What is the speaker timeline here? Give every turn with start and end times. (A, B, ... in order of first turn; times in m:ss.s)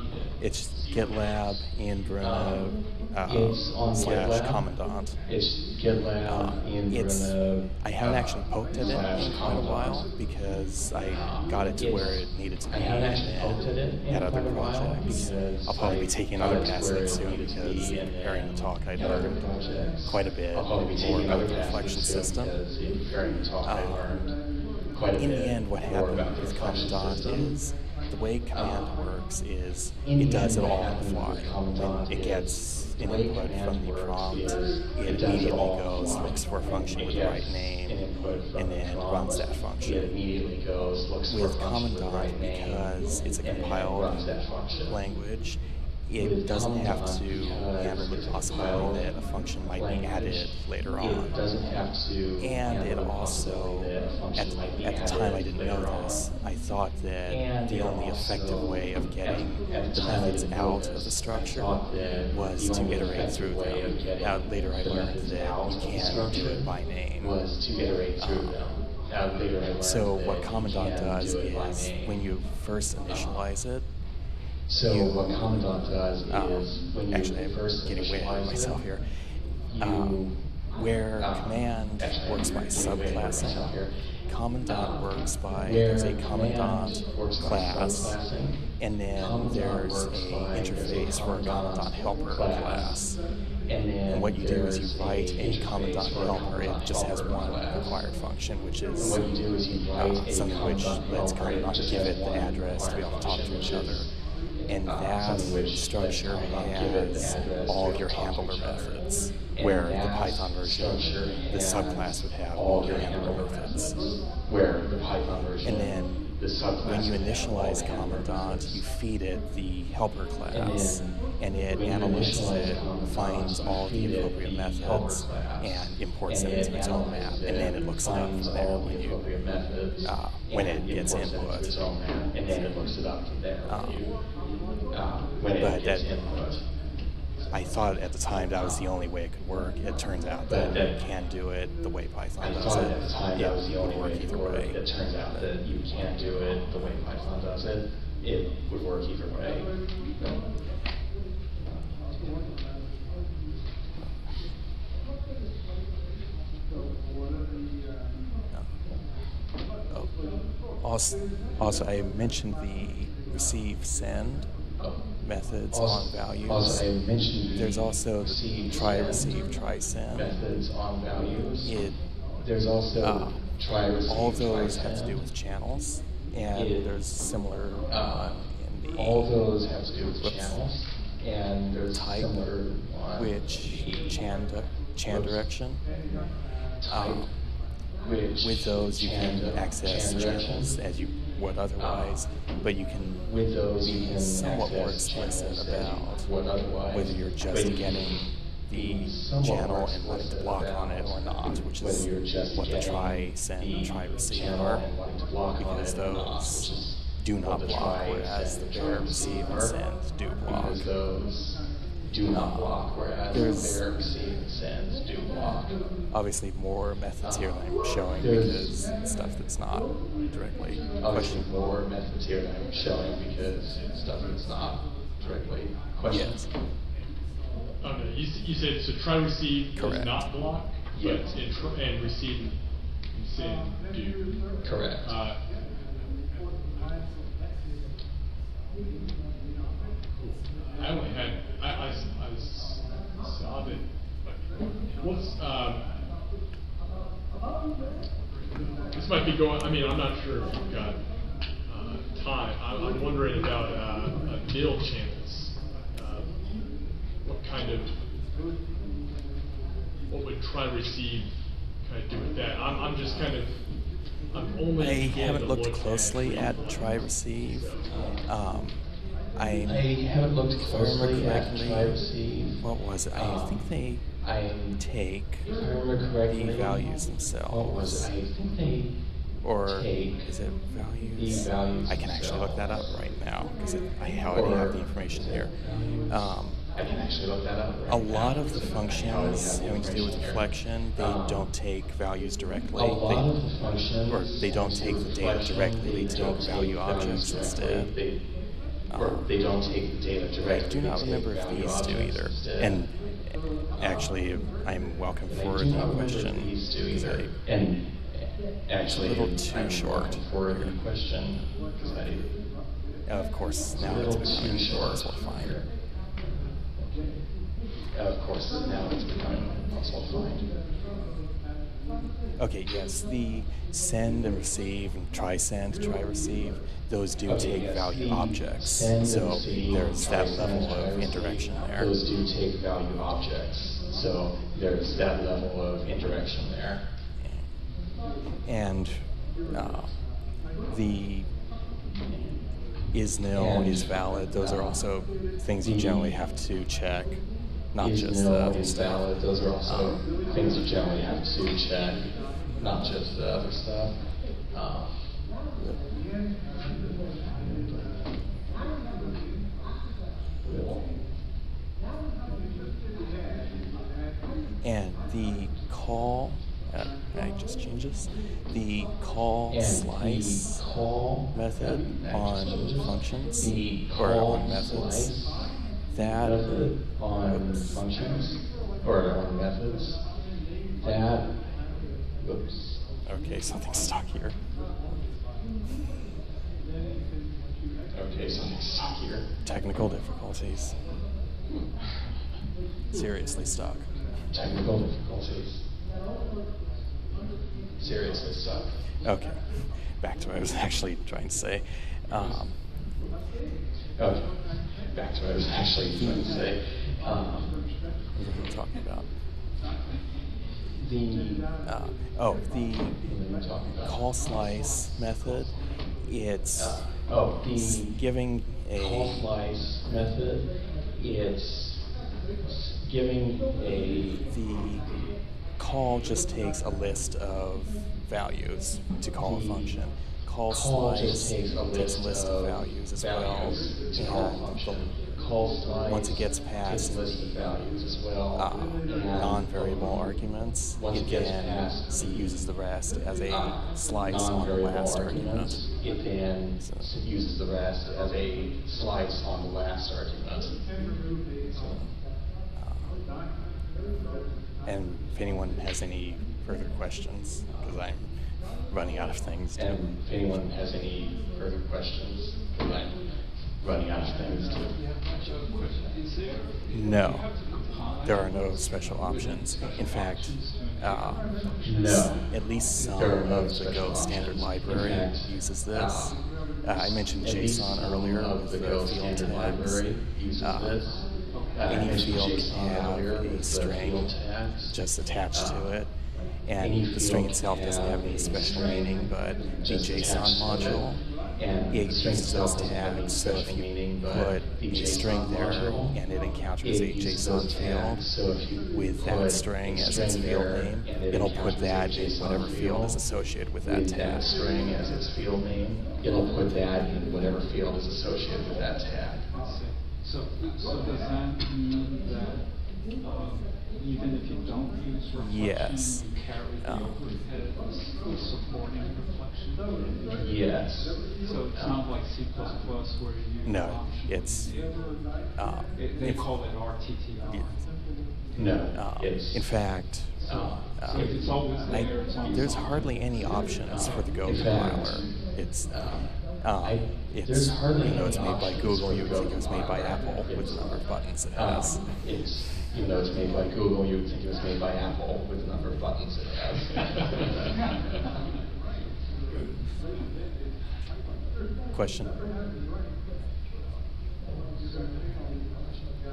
0:00.4-0:05.2 A
0:02.2-0:04.7 B
0:05.2-0:10.1 B
0:06.2-0:19.4 A
0:11.0-0:24.4 B
0:20.0-0:22.6 A
0:23.6-0:24.2 A
0:24.9-0:27.5 B
0:25.1-0:40.1 A
0:28.5-0:28.9 B
0:30.0-0:45.0 B
0:41.3-0:44.3 A
0:44.9-0:51.4 A
0:46.2-0:49.1 B
0:49.6-0:56.3 B
0:52.4-1:01.8 A
0:57.3-1:12.3 B
1:02.3-1:07.4 A
1:08.2-1:08.6 A
1:09.8-1:13.9 A
1:13.1-1:13.5 B
1:14.7-1:18.8 B
1:14.8-1:15.4 A
1:16.3-1:28.2 A
1:19.7-1:20.5 B
1:21.2-1:23.9 B
1:24.6-1:33.0 B
1:28.8-1:33.2 A
1:33.7-1:37.9 B
1:34.1-1:44.1 A
1:39.0-1:44.1 B
1:44.6-1:58.8 B
1:44.6-1:54.0 A
1:55.6-1:56.3 A
1:56.8-2:09.2 A
2:00.5-2:01.1 B
2:01.7-2:14.1 B
2:10.0-2:11.8 A
2:12.4-2:12.8 A
2:13.6-2:14.1 A
2:14.9-2:16.6 B
2:15.6-2:16.1 A
2:17.5-2:26.0 A
2:20.4-2:20.9 B
2:22.4-2:30.4 B
2:31.6-2:32.7 B
2:38.5-2:39.0 A
2:40.8-2:44.5 A
2:44.8-2:45.1 B
2:45.2-2:46.9 A
2:45.7-2:49.4 B
2:47.6-2:50.4 A
2:50.1-2:51.8 B
2:51.6-2:52.0 A
2:52.4-2:55.2 B
2:53.0-2:53.5 A
2:54.0-2:59.4 A
2:56.5-2:56.9 B
2:57.9-2:58.4 B
2:58.9-3:04.2 B
3:00.2-3:00.6 A
3:01.9-3:02.4 A
3:03.2-3:05.8 A
3:05.0-3:05.4 B
3:06.8-3:07.2 B
3:06.9-3:07.3 A
3:08.0-3:10.8 B
3:08.4-3:16.3 A
3:11.8-3:12.2 B
3:13.2-3:21.2 B
3:16.9-3:24.9 A
3:21.8-3:29.8 B
3:25.6-3:30.9 A
3:30.4-3:35.9 B
3:32.2-3:33.8 A
3:36.1-3:41.5 A
3:37.2-3:37.6 B
3:38.2-3:38.7 B
3:41.0-3:46.4 B
3:46.0-3:46.5 A
3:47.8-3:54.3 C
3:49.7-3:50.3 A
3:50.9-3:51.3 B
3:54.6-3:55.2 B
3:55.0-3:55.4 C
4:00.2-4:05.9 C
4:08.4-4:11.0 C
4:11.6-4:16.6 C
4:17.2-4:18.0 C
4:20.1-4:23.8 C
4:24.3-4:28.1 C
4:24.8-4:29.9 A
4:27.9-4:28.2 B
4:29.6-4:32.6 B
4:30.6-4:32.0 A
4:32.6-4:34.1 A
4:33.1-4:34.8 B
4:34.7-4:35.5 A
4:35.4-4:36.9 B
4:36.2-4:38.1 A
4:37.4-4:39.0 B
4:39.4-4:45.6 A
4:39.7-4:40.2 B
4:41.1-4:42.7 B
4:44.3-4:51.5 B
4:46.1-4:46.6 A
4:47.9-4:53.3 A
4:52.7-4:58.4 B
4:54.1-4:58.0 A
4:58.9-4:59.3 A
4:58.9-5:02.8 B
5:00.4-5:07.4 A
5:05.3-5:12.4 B
5:08.8-5:10.8 A
5:13.0-5:15.6 A
5:13.7-5:16.1 B
5:16.7-5:17.3 B
5:17.8-5:20.6 B
5:22.4-5:31.9 A
5:27.3-5:36.8 B
5:37.2-5:37.5 A
5:38.4-5:40.0 A
5:40.6-5:41.3 A
5:42.9-5:50.0 A
5:43.3-5:44.9 B
5:45.6-5:46.1 B
5:47.8-5:55.1 B
5:57.1-5:58.2 B
6:00.4-6:00.8 B
6:04.6-6:10.6 A
6:09.5-6:15.6 B
6:11.3-6:15.2 A
6:15.9-6:16.6 A
6:16.2-6:20.0 B
6:17.3-6:17.9 A
6:20.8-6:21.6 B
6:22.2-6:22.8 B
6:23.0-6:24.4 A
6:27.9-6:29.3 B
6:29.4-6:30.9 A
6:32.9-6:34.0 A
6:34.2-6:35.7 B
6:37.8-6:38.8 B
6:39.0-6:42.8 A
6:43.9-6:47.7 B
6:45.9-6:46.4 A
6:48.1-6:49.1 A
6:50.7-6:51.5 B
6:51.6-6:53.0 A
6:53.0-6:54.0 B
6:53.8-6:59.3 A
6:56.5-6:58.0 B
6:58.7-7:04.2 B
7:04.0-7:04.9 A
7:05.6-7:15.0 A
7:09.2-7:09.8 B
7:10.5-7:20.0 B
7:15.8-7:17.7 A
7:18.4-7:25.7 A
7:20.8-7:22.5 B
7:23.3-7:30.7 B
7:26.6-7:26.9 A
7:31.5-7:31.8 B
7:31.6-7:32.0 A
7:32.5-7:33.1 A
7:34.6-7:40.4 A
7:39.5-7:43.0 B
7:43.5-7:45.3 B
7:45.0-7:53.3 D
7:46.7-8:00.8 A
7:51.6-7:52.4 B
7:52.9-7:56.2 B
7:57.2-8:04.8 B
8:01.3-8:01.7 D
8:01.7-8:05.9 A
8:05.3-8:05.8 B
8:06.4-8:11.0 A
8:06.6-8:16.0 B
8:11.7-8:18.1 A
8:16.6-8:23.1 B
8:18.6-8:24.3 A
8:23.6-8:29.3 B
8:29.3-8:40.2 D
8:35.1-8:37.0 A
8:40.1-8:41.8 B
8:41.2-8:48.3 D
8:43.4-8:44.5 A
8:45.3-8:46.3 A
8:47.3-8:47.6 A
8:48.3-8:51.2 B
8:48.7-9:02.0 A
8:50.2-8:54.1 D
8:53.6-9:07.4 B
9:09.3-9:09.7 A
9:11.7-9:12.2 A
9:14.3-9:14.7 B